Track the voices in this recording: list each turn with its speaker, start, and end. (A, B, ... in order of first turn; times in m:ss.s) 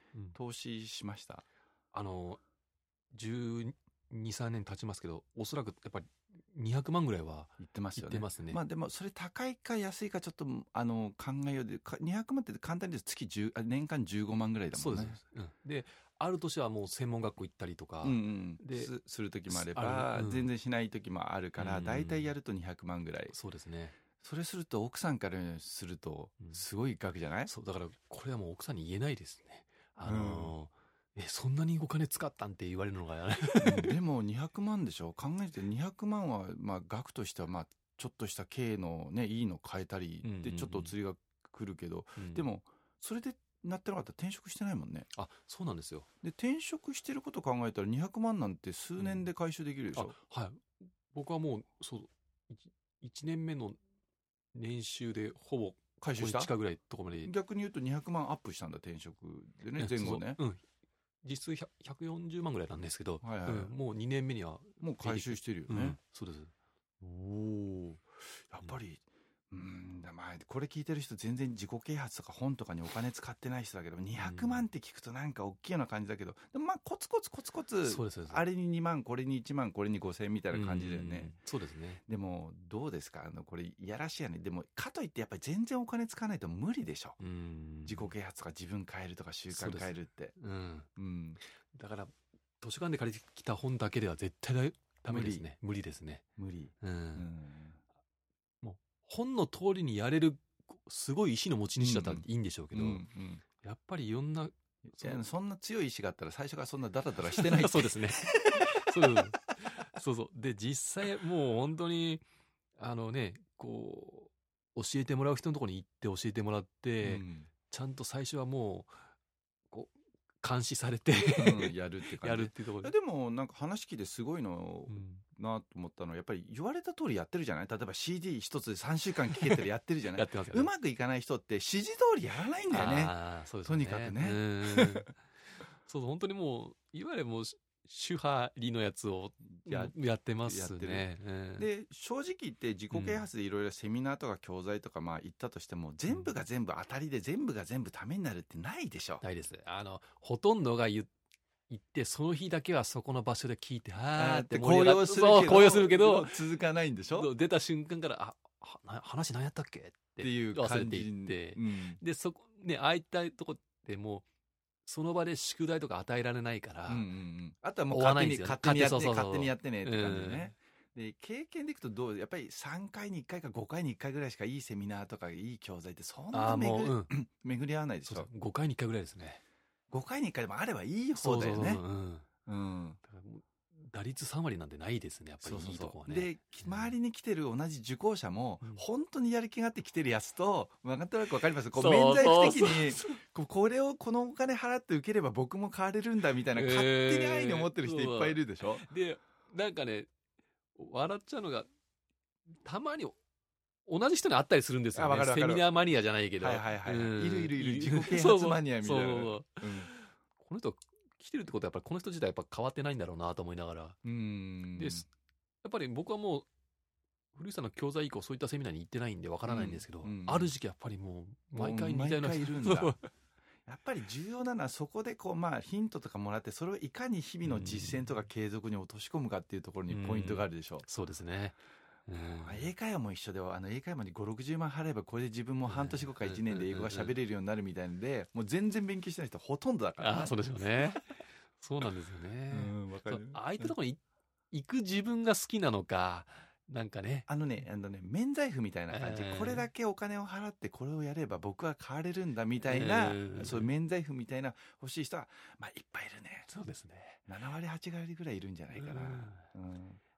0:00.3-0:01.4 A
0:01.9-0:02.4 B
0:03.1-0:08.6 B
0:07.6-0:15.2 A
0:14.7-0:18.9 B
0:18.0-0:23.4 A
0:19.5-0:20.5 B
0:21.6-0:22.4 B
0:23.3-0:24.0 B
0:24.2-0:27.5 A
0:27.5-0:34.0 B
0:30.1-0:30.5 A
0:33.6-0:45.1 A
0:40.2-0:40.9 B
0:42.2-0:42.4 B
0:45.1-0:46.1 B
0:46.2-0:50.2 A
0:49.0-0:49.3 B
0:49.9-0:53.8 B
0:54.5-0:57.3 B
0:56.0-0:56.5 A
0:57.2-1:00.4 A
0:59.8-1:00.6 B
1:01.2-1:08.0 B
1:03.2-1:03.7 A
1:04.8-1:06.0 A
1:08.3-1:21.3 A
1:14.2-1:14.7 B
1:17.8-1:18.4 B
1:20.5-1:22.0 B
1:22.1-1:27.2 A
1:27.2-1:28.1 B
1:27.8-1:30.4 A
1:29.5-1:30.9 B
1:31.0-1:31.4 A
1:31.7-1:36.2 B
1:35.0-1:35.4 A
1:36.4-1:37.8 A
1:36.8-1:37.3 B
1:38.6-1:43.0 B
1:41.8-1:43.4 A
1:43.6-1:45.2 B
1:44.9-1:49.7 A
1:47.2-1:52.2 B
1:52.8-1:59.0 B
1:57.0-1:57.5 A
1:59.7-2:02.9 B
2:01.4-2:15.1 A
2:04.9-2:05.2 B
2:10.1-2:10.7 B
2:12.7-2:15.2 B
2:15.8-2:21.7 B
2:19.5-2:21.1 A
2:21.6-2:29.2 A
2:22.9-2:23.3 B
2:26.1-2:26.4 B
2:29.2-2:31.1 B
2:31.7-2:36.3 B
2:34.2-2:37.3 A
2:37.1-2:44.2 B
2:40.2-2:42.0 A
2:44.9-2:47.1 B
2:46.9-2:58.3 A
2:47.9-2:50.5 B
2:56.3-2:57.1 B
2:58.0-2:59.4 B
2:59.9-3:01.8 A
3:01.2-3:02.3 B
3:02.5-3:03.0 A
3:03.0-3:07.0 B
3:05.4-3:18.9 A
3:11.7-3:13.2 B
3:16.5-3:20.1 B
3:20.8-3:21.7 B
3:22.6-3:23.2 B
3:23.9-3:34.0 B
3:25.0-3:25.7 A
3:26.4-3:29.9 A
3:34.0-3:35.1 A
3:34.8-3:35.1 B
3:35.6-3:36.5 B
3:37.3-3:43.0 B
3:39.5-3:40.5 A
3:41.6-3:43.0 A
3:43.7-3:50.9 A
3:47.4-3:48.1 B
3:49.9-3:52.7 B
3:52.4-4:01.2 A
3:55.6-3:57.2 B
4:00.0-4:01.0 B
4:01.5-4:07.3 B
4:02.5-4:03.7 A
4:07.3-4:16.5 A
4:08.9-4:09.7 B
4:12.6-4:13.7 B
4:16.5-4:17.2 B
4:17.3-4:20.0 A
4:18.7-4:19.5 B